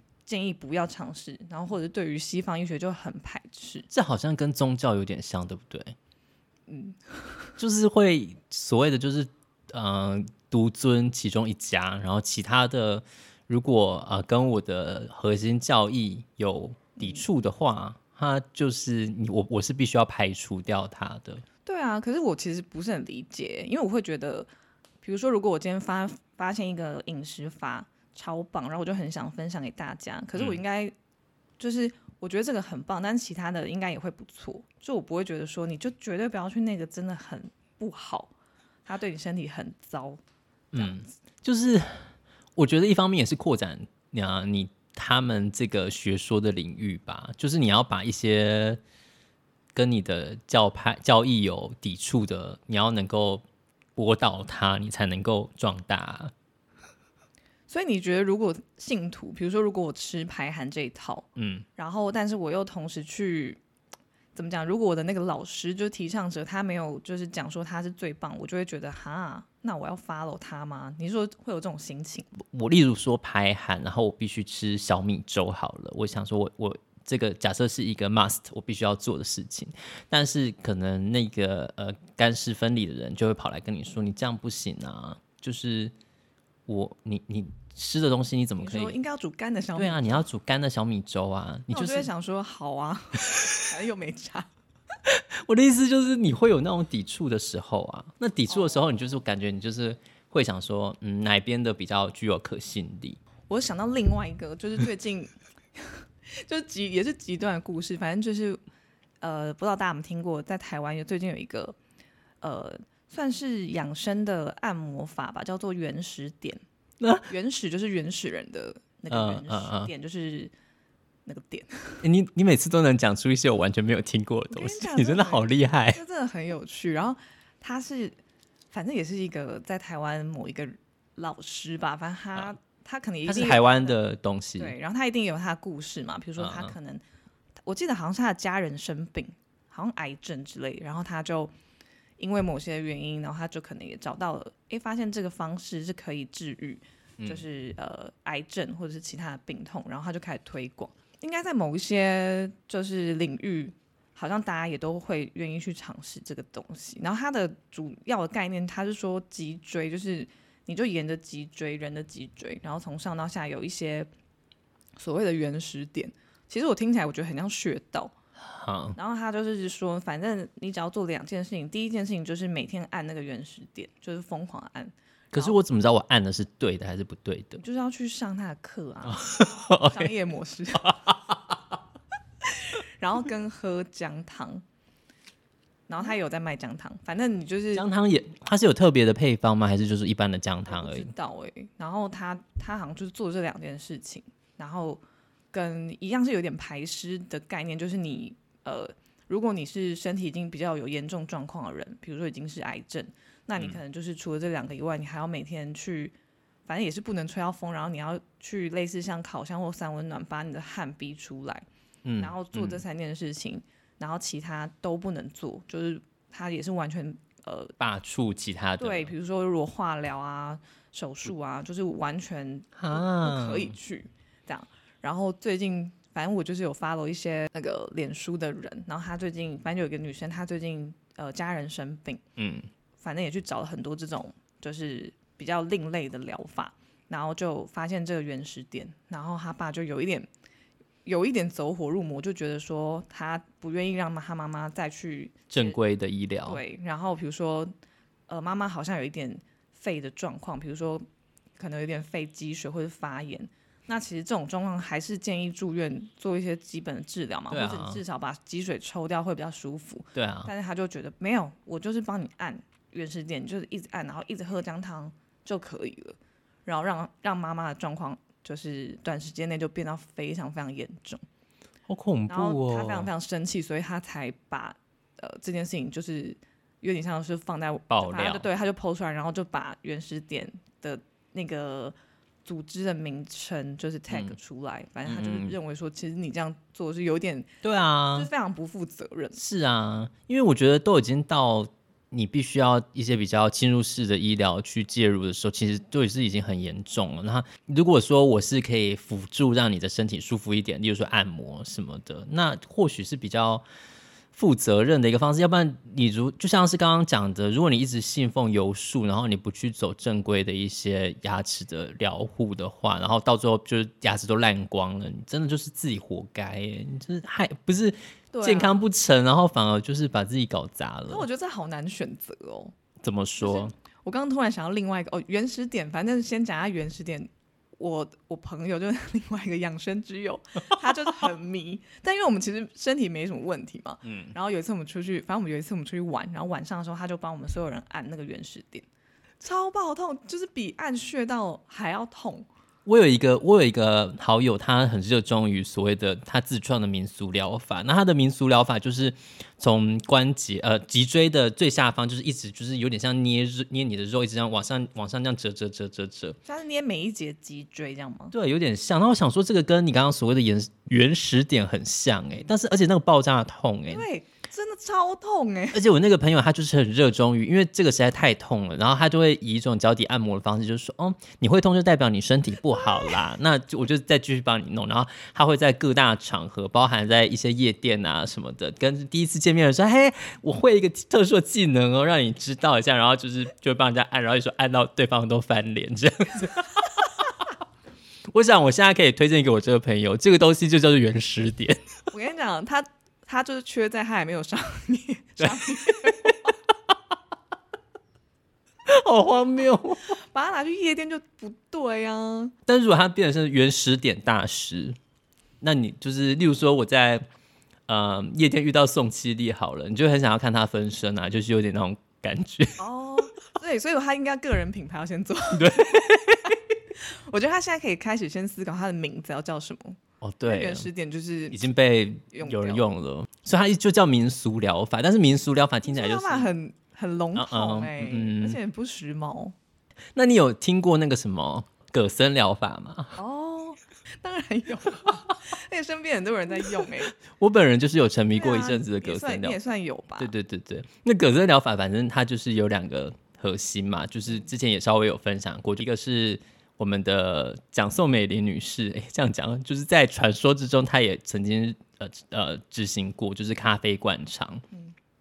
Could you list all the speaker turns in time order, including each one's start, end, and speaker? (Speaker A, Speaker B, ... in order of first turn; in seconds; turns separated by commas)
Speaker A: 0.2-3.9, Speaker B: 3.9-5.9, Speaker A: 6.7-7.5, Speaker B: 7.6-21.4, Speaker A: 17.0-17.2, Speaker A: 21.6-24.5, Speaker A: 25.0-30.9, Speaker A: 31.6-38.3, Speaker A: 38.9-40.2, Speaker B: 40.7-48.8, Speaker A: 40.7-41.1, Speaker B: 49.7-53.4, Speaker B: 54.0-56.3, Speaker A: 57.7-63.6, Speaker B: 61.4-61.6, Speaker A: 64.3-72.3, Speaker B: 72.4-85.9, Speaker B: 86.7-89.0, Speaker A: 88.6-90.2, Speaker B: 89.8-92.1, Speaker A: 91.7-94.5, Speaker B: 95.1-103.2, Speaker A: 98.5-98.8, Speaker A: 103.5-108.6, Speaker A: 109.2-111.8, Speaker A: 112.4-116.6, Speaker B: 117.0-117.3, Speaker A: 117.3-120.5, Speaker B: 119.1-119.9, Speaker A: 121.2-122.0, Speaker B: 122.0-126.0, Speaker A: 124.5-128.2, Speaker A: 128.7-134.0, Speaker B: 133.2-134.7, Speaker A: 134.6-137.0, Speaker B: 136.4-136.7, Speaker A: 137.7-141.5, Speaker A: 142.2-164.1, Speaker A: 165.0-168.1, Speaker B: 168.4-169.0, Speaker A: 168.9-175.6, Speaker B: 175.3-177.6, Speaker A: 177.6-181.1, Speaker B: 179.1-180.1, Speaker B: 180.8-181.5, Speaker A: 182.5-184.6, Speaker A: 185.9-187.8, Speaker B: 187.7-191.1, Speaker A: 190.7-195.0, Speaker A: 195.5-206.1, Speaker A: 206.7-211.6, Speaker B: 212.0-212.8, Speaker A: 212.2-217.7, Speaker B: 217.8-219.1, Speaker A: 218.8-232.2, Speaker B: 222.8-223.7, Speaker B: 232.4-232.7, Speaker A: 233.0-240.3, Speaker A: 241.0-245.8, Speaker B: 245.5-246.6, Speaker A: 246.4-247.7, Speaker A: 248.3-251.0, Speaker A: 251.6-271.2, Speaker B: 257.5-258.0, Speaker B: 260.1-260.5, Speaker B: 271.9-273.1, Speaker A: 272.3-287.5, Speaker B: 277.9-278.4, Speaker B: 284.1-284.4, Speaker B: 285.1-285.5, Speaker B: 287.6-288.3, Speaker A: 288.1-289.4, Speaker B: 289.3-303.6, Speaker B: 304.3-321.2, Speaker A: 318.3-318.8, Speaker A: 321.1-322.7, Speaker B: 323.0-323.7, Speaker A: 323.4-338.9, Speaker B: 334.0-334.3, Speaker A: 339.4-342.5, Speaker B: 342.9-356.4, Speaker A: 356.4-358.3, Speaker B: 358.3-364.0, Speaker A: 363.9-365.8, Speaker B: 365.7-387.4, Speaker B: 388.3-391.8, Speaker A: 392.1-396.5, Speaker B: 395.4-396.4, Speaker B: 398.8-400.1, Speaker A: 400.1-402.5, Speaker B: 402.6-405.0, Speaker B: 405.6-407.2, Speaker B: 407.9-412.8, Speaker A: 412.8-421.7, Speaker B: 415.5-416.6, Speaker B: 420.2-420.9, Speaker B: 421.5-426.5, Speaker A: 422.3-422.8, Speaker A: 425.9-429.5, Speaker B: 427.3-428.6, Speaker B: 430.1-433.2, Speaker A: 433.2-437.1, Speaker B: 436.8-439.6, Speaker A: 438.3-440.3, Speaker B: 440.2-454.6